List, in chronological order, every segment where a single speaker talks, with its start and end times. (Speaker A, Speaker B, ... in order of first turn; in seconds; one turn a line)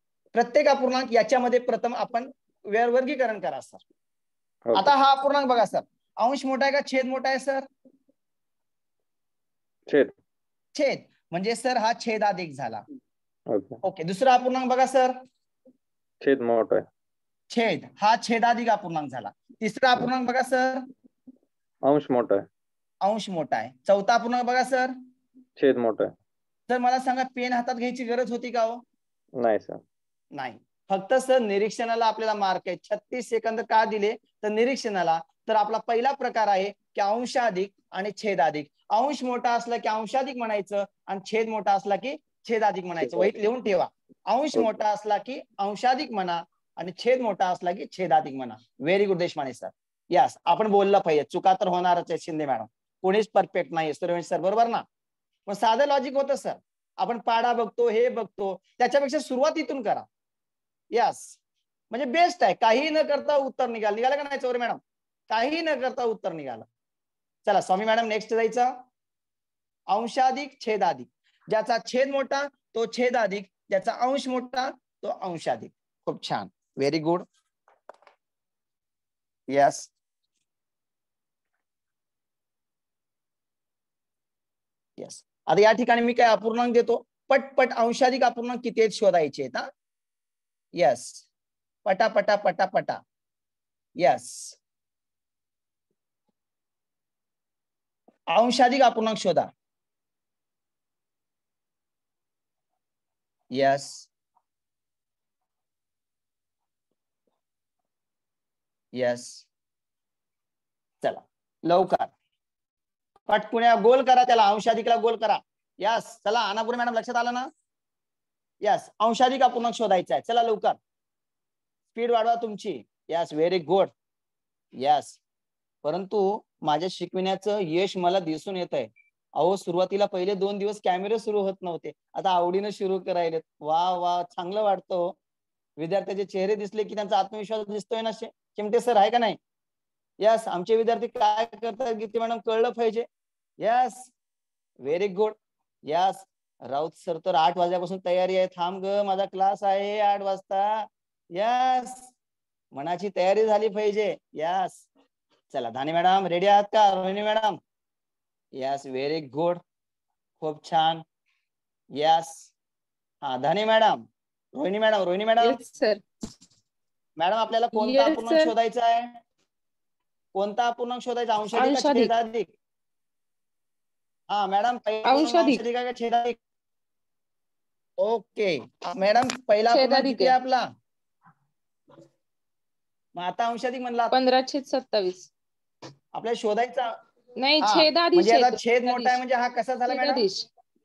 Speaker A: 0.3-3.8
Speaker B: 4.7-4.9
Speaker A: 4.8-7.7
Speaker A: 10.8-12.8
Speaker B: 13.5-13.8
Speaker A: 13.8-15.1
Speaker B: 16.2-16.9
Speaker A: 17.5-20.8
Speaker B: 21.8-22.5
Speaker A: 23.0-24.9
Speaker B: 25.6-26.1
Speaker A: 26.7-28.8
Speaker B: 29.4-29.8
Speaker A: 30.4-54.8
Speaker A: 55.5-60.1
Speaker A: 60.9-61.4
Speaker A: 61.9-64.8
Speaker A: 65.3-66.7
Speaker A: 67.5-68.7
Speaker A: 69.9-77.2
Speaker A: 79.5-79.9
Speaker A: 85.0-89.7
Speaker A: 90.8-91.2
Speaker A: 91.9-93.0
Speaker A: 94.0-94.6
Speaker A: 98.3-99.5
Speaker A: 103.5-104.1
Speaker A: 109.0-109.5
Speaker A: 111.0-112.1
Speaker A: 113.3-117.5
Speaker A: 118.6-120.8
Speaker A: 122.0-123.9
Speaker A: 124.8-125.2
Speaker A: 125.8-135.2
Speaker A: 135.8-139.4
Speaker A: 140.2-143.1
Speaker A: 143.6-144.1
Speaker A: 144.8-145.4
Speaker A: 145.9-152.1
Speaker A: 152.7-154.8
Speaker A: 155.5-157.6
Speaker A: 158.6-159.6
Speaker A: 160.4-161.0
Speaker A: 161.9-162.5
Speaker A: 163.2-164.0
Speaker A: 164.6-165.6
Speaker C: 165.4-166.0
Speaker A: 167.2-169.2
Speaker C: 167.7-168.5
Speaker A: 170.3-172.5
Speaker C: 171.5-172.1
Speaker A: 174.3-176.4
Speaker C: 175.1-175.6
Speaker A: 178.0-180.7
Speaker C: 179.7-180.3
Speaker A: 183.2-184.1
Speaker C: 184.1-185.3
Speaker A: 186.2-186.9
Speaker C: 187.4-189.2
Speaker A: 187.6-190.3
Speaker C: 189.9-190.4